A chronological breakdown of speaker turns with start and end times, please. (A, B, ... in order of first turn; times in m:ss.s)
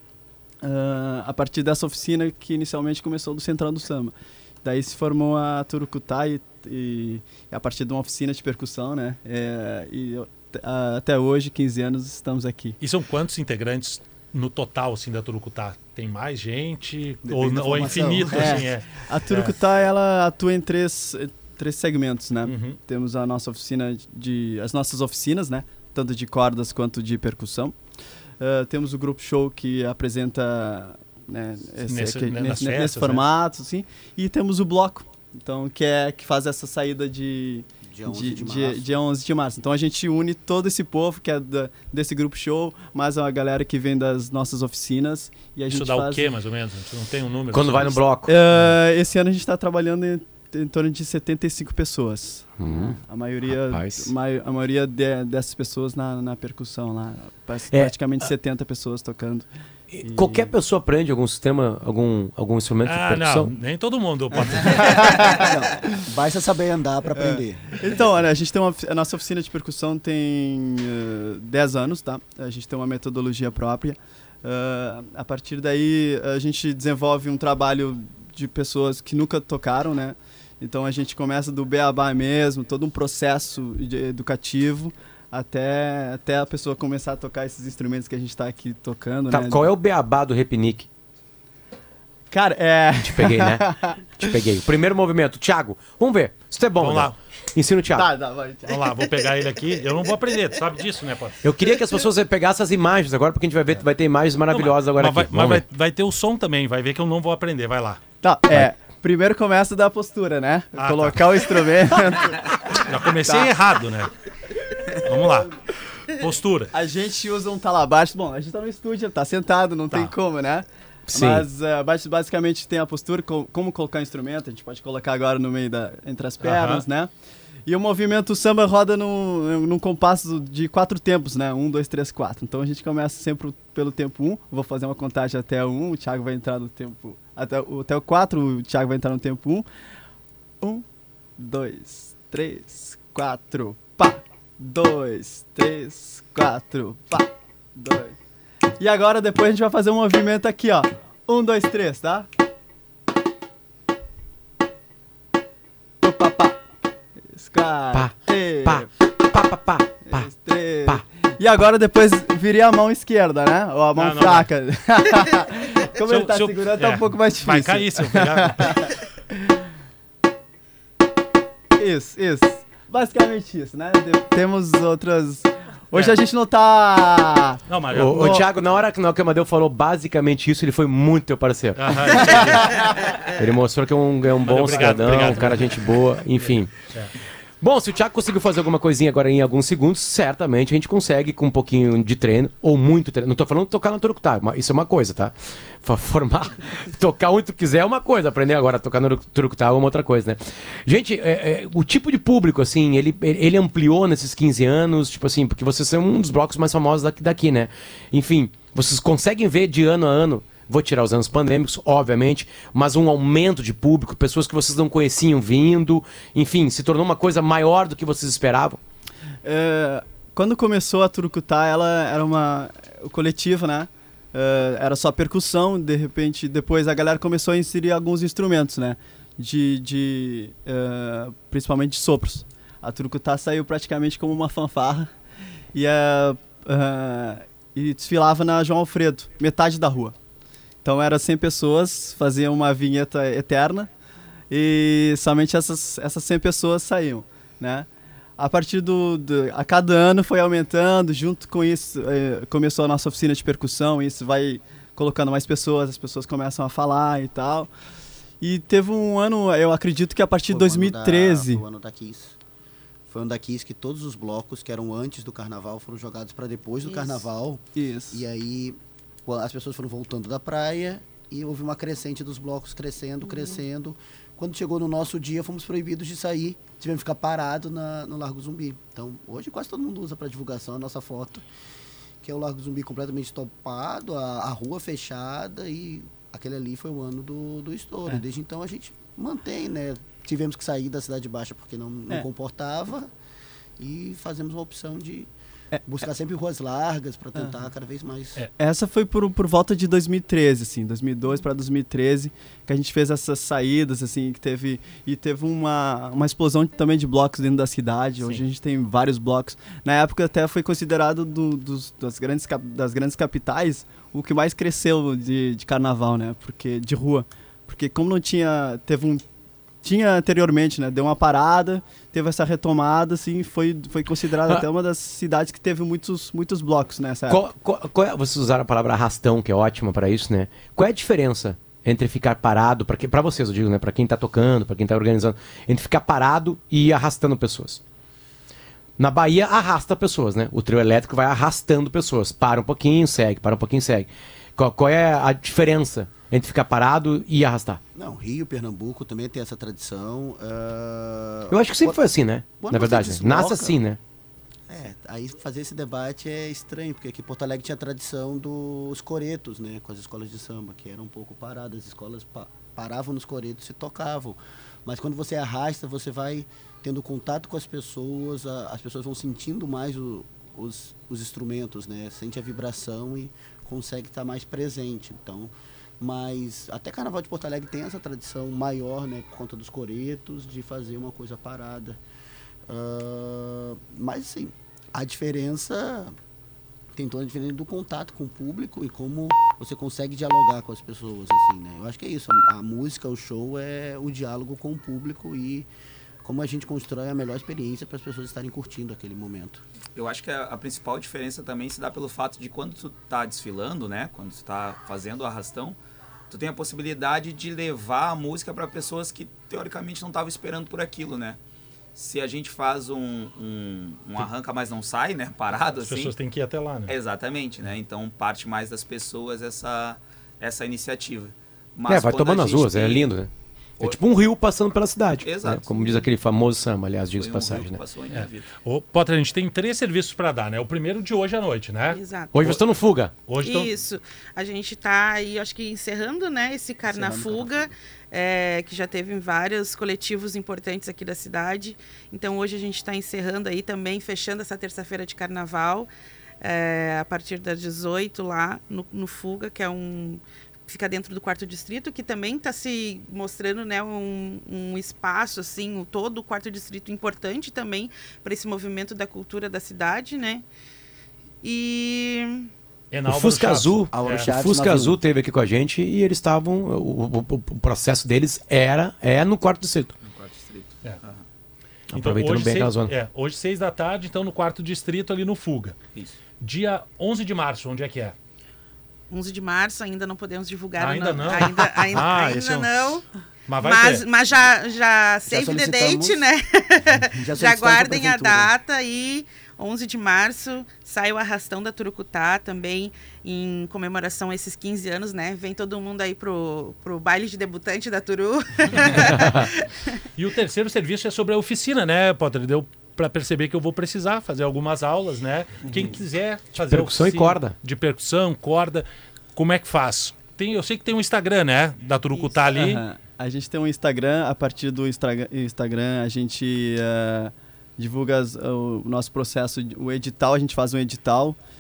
0:00.6-0:12.8 A
0:12.8-0:19.6 B
0:17.2-0:18.7 C
0:18.3-0:27.8 A
0:22.4-0:22.8 B
0:28.4-0:46.3 A
0:31.9-0:33.2 B
0:37.9-0:38.9 C
0:45.7-0:48.0 B
0:47.5-0:48.3 D
0:48.3-0:59.5 A
0:52.6-0:53.0 D
0:53.5-0:54.1 D
0:59.9-1:03.5 D
1:00.0-1:00.5 A
1:02.8-1:05.4 B
1:04.4-1:05.9 A
1:05.2-1:07.9 C
1:07.2-1:29.7 A
1:29.3-1:30.9 D
1:32.3-1:34.3 A
1:33.0-1:38.1 D
1:36.8-1:37.2 B
1:38.0-1:39.0 A
1:38.7-1:41.4 B
1:41.4-1:45.6 D
1:44.5-1:48.0 B
1:48.2-1:53.6 A
1:50.8-1:54.1 B
1:54.9-1:55.5 B
1:56.1-1:56.7 B
1:56.7-2:07.1 A
2:01.1-2:01.5 D
2:06.4-2:06.8 B
2:07.7-2:19.7 A
2:20.6-2:20.9 A
2:21.4-2:28.2 A
2:28.8-2:32.3 A
2:36.0-2:36.6 A
2:37.3-2:38.9 A
2:37.9-2:40.3 D
2:40.0-2:49.6 A
2:44.0-2:44.5 B
2:46.0-2:48.8 B
2:51.8-2:58.4 A
2:55.9-2:56.2 B
2:57.7-2:58.5 B
2:57.9-3:02.6 D
3:01.8-3:02.9 B
3:03.3-3:06.7 D
3:04.3-3:05.8 B
3:06.3-3:07.1 B
3:07.6-3:38.8 D
3:39.4-3:55.1 A
3:55.7-4:00.2 A
4:00.8-4:03.9 A
4:04.5-4:17.7 A
4:18.4-4:21.6 A
4:20.5-4:22.4 C
4:23.1-4:41.4 C
4:26.8-4:27.3 E
4:27.8-4:28.2 A
4:33.3-4:33.6 E
4:42.2-4:53.1 C
4:53.8-4:55.3 C
4:55.9-4:58.4 C
4:58.6-5:19.2 A
5:19.8-5:27.5 A
5:27.3-5:37.8 D
5:39.0-5:47.8 D
5:48.0-5:52.1 C
5:51.5-5:54.0 D
5:52.6-5:53.8 C
5:54.7-6:22.0 C
6:22.7-6:26.2 C
6:27.0-6:35.7 C
6:36.2-6:39.6 C
6:40.0-6:45.8 F
6:46.3-6:51.4 F
6:52.0-6:56.2 F
6:55.7-6:56.9 B
6:56.9-7:03.1 F
7:01.9-7:07.8 D
7:05.1-7:06.1 F
7:07.2-7:08.5 F
7:08.1-7:12.5 B
7:11.9-7:12.5 E
7:12.3-7:13.1 D
7:13.3-7:13.7 B
7:13.4-7:25.9 E
7:16.8-7:17.7 C
7:26.4-7:40.5 E
7:41.4-7:42.5 E
7:42.9-7:44.3 B
7:43.1-7:50.0 D
7:43.9-7:45.0 C
7:50.0-7:51.2 F
7:51.9-7:52.9 D
7:51.9-7:55.8 B
7:56.4-7:58.2 B
7:59.1-8:03.0 E
8:00.8-8:02.9 B
8:01.4-8:01.7 D
8:03.5-8:04.1 B
8:03.6-8:19.7 E
8:05.3-8:06.3 C
8:07.2-8:08.5 C
8:19.0-8:19.5 D
8:20.2-8:32.8 B
8:26.7-8:27.6 D
8:32.2-8:41.4 A